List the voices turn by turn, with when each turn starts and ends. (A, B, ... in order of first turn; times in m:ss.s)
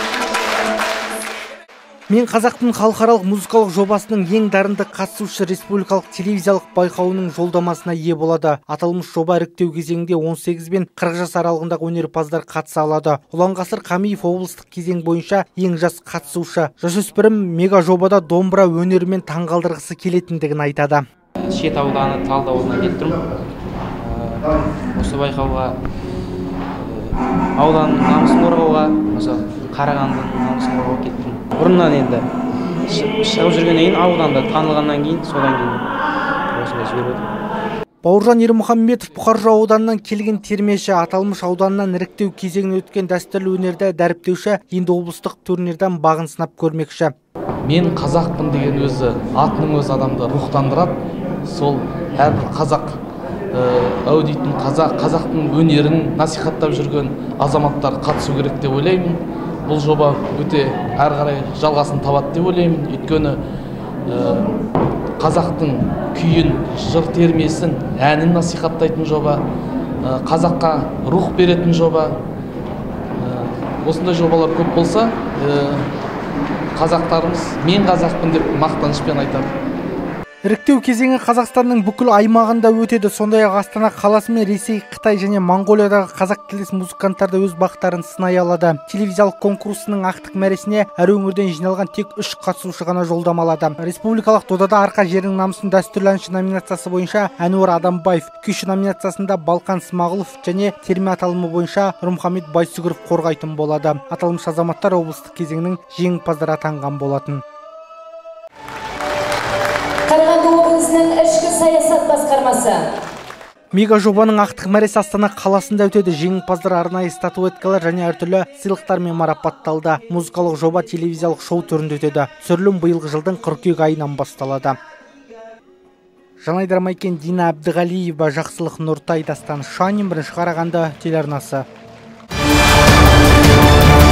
0:02.1-0:21.0 A
0:21.4-0:23.2 B
0:24.0-0:25.7 B
0:26.7-0:35.8 B
0:36.5-0:37.2 B
0:38.0-0:47.1 A
0:47.6-0:53.0 C
0:53.5-1:03.4 C
1:04.0-1:04.6 C
1:05.2-1:09.4 C
1:10.0-1:12.2 C
1:13.2-1:15.9 C
1:16.7-1:19.5 C
1:20.4-1:47.4 A
1:50.1-1:52.8 D
1:53.7-2:04.8 A
2:06.4-2:11.6 A